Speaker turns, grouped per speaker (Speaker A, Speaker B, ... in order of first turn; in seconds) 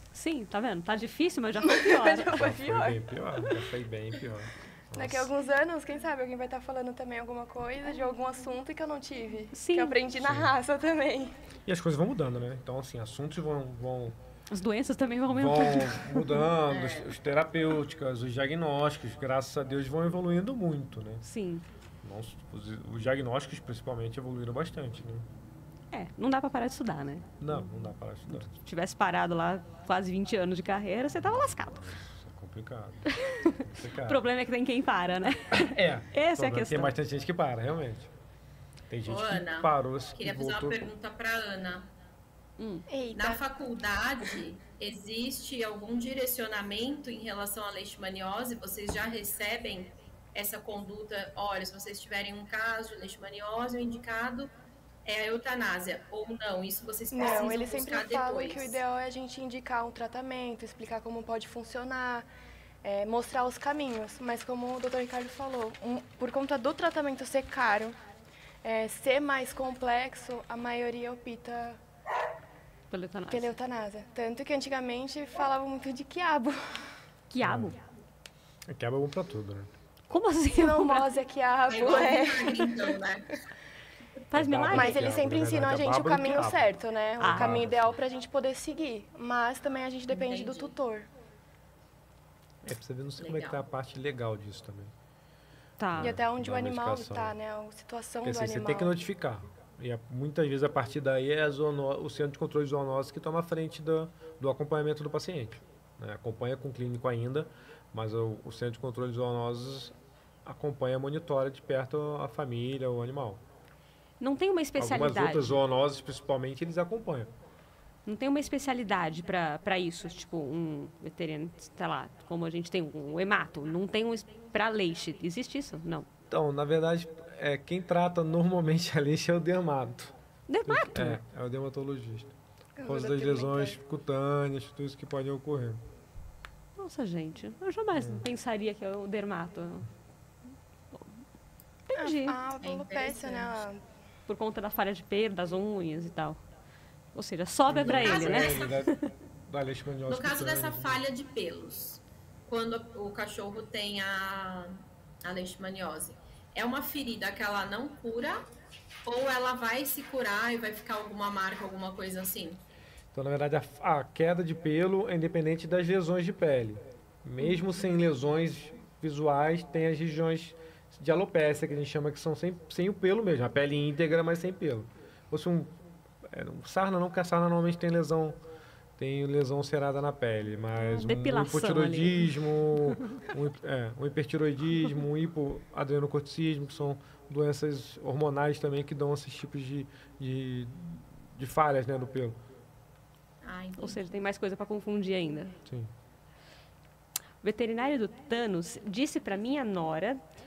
Speaker A: 0.1-2.4, 9.5-10.0, 14.5-16.4, 21.2-21.7, 25.9-27.7, 28.3-31.9, 33.1-36.9, 42.6-42.9, 72.9-73.5, 77.3-77.8, 80.1-81.1, 84.3-85.2, 87.2-87.6, 95.8-96.2, 114.2-115.6, 118.1-126.1, 130.5-131.2, 136.8-139.9, 141.9-142.4, 144.3-146.4, 147.1-149.0, 180.8-183.2, 193.8-195.6, 197.4-200.2
Speaker B: 1.6-3.6, 5.0-11.3, 42.9-43.4, 57.1-62.3, 62.8-68.0, 68.6-71.8, 73.3-76.9, 80.5-83.0, 84.7-91.1, 96.0-98.9, 132.8-133.8, 141.9-143.8
Speaker C: 2.3-5.3, 10.2-10.6, 11.7-14.2, 15.3-21.2, 22.0-25.3, 27.4-28.5, 31.7-33.1, 33.6-34.2, 35.5-38.1, 38.9-40.8, 77.4-77.7, 78.7-79.7, 84.3-88.0, 92.6-94.9, 95.9-97.3, 98.2-113.4, 114.8-117.3, 126.3-130.1, 130.7-135.8, 137.9-138.3, 147.7-151.0, 163.1-178.4, 179.0-192.4, 195.7-195.9
Speaker D: 16.7-17.1, 39.1-41.9, 43.1-54.5, 55.0-58.8, 81.7-83.4, 90.1-90.7, 93.2-93.6, 142.6-143.7, 147.8-148.7, 150.1-158.5, 159.1-162.6, 193.4-194.0